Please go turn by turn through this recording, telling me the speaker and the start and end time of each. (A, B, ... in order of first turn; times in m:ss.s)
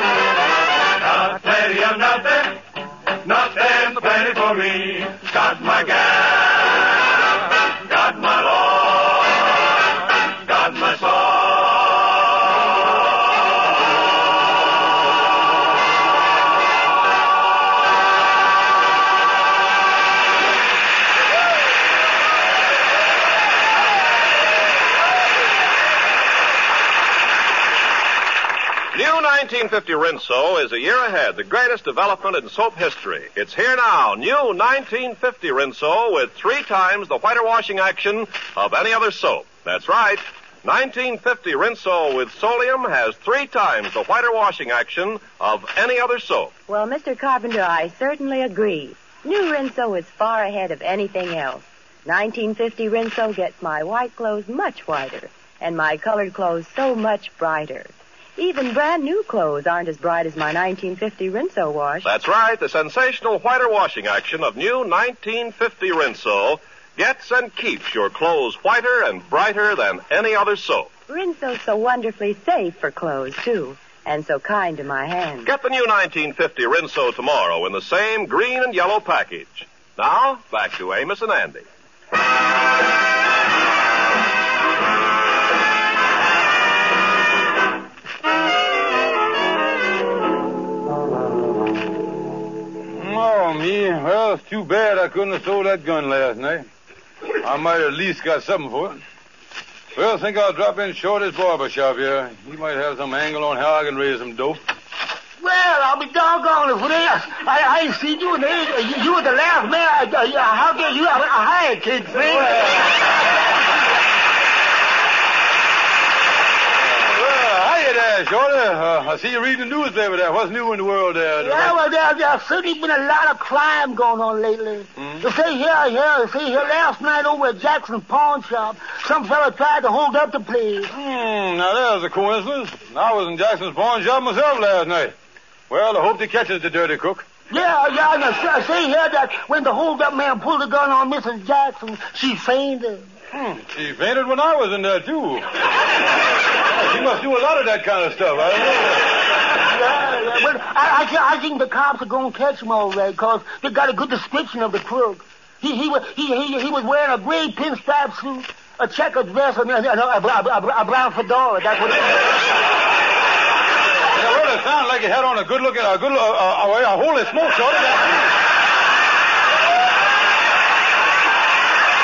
0:01.0-0:02.6 A
0:03.2-0:06.9 A
0:07.8-0:09.3 A
0:10.4-0:11.9 A
0:28.9-0:46.5 B
0:46.7-1:02.1 C
1:02.0-1:10.9 B
1:11.1-1:15.5 C
1:15.4-1:21.6 B
1:33.0-1:36.6 D
1:37.4-1:39.0 D
1:39.9-1:44.6 D
1:45.4-1:52.7 E
1:52.2-1:52.8 D
1:57.1-2:01.8 D
2:01.4-2:10.9 E
2:05.0-2:05.2 D
2:10.9-2:15.1 D
2:15.7-2:17.2 D
2:17.5-2:23.1 E
2:23.3-2:25.4 D
2:26.7-2:29.1 D
2:29.6-2:42.3 E
2:44.1-2:48.3 D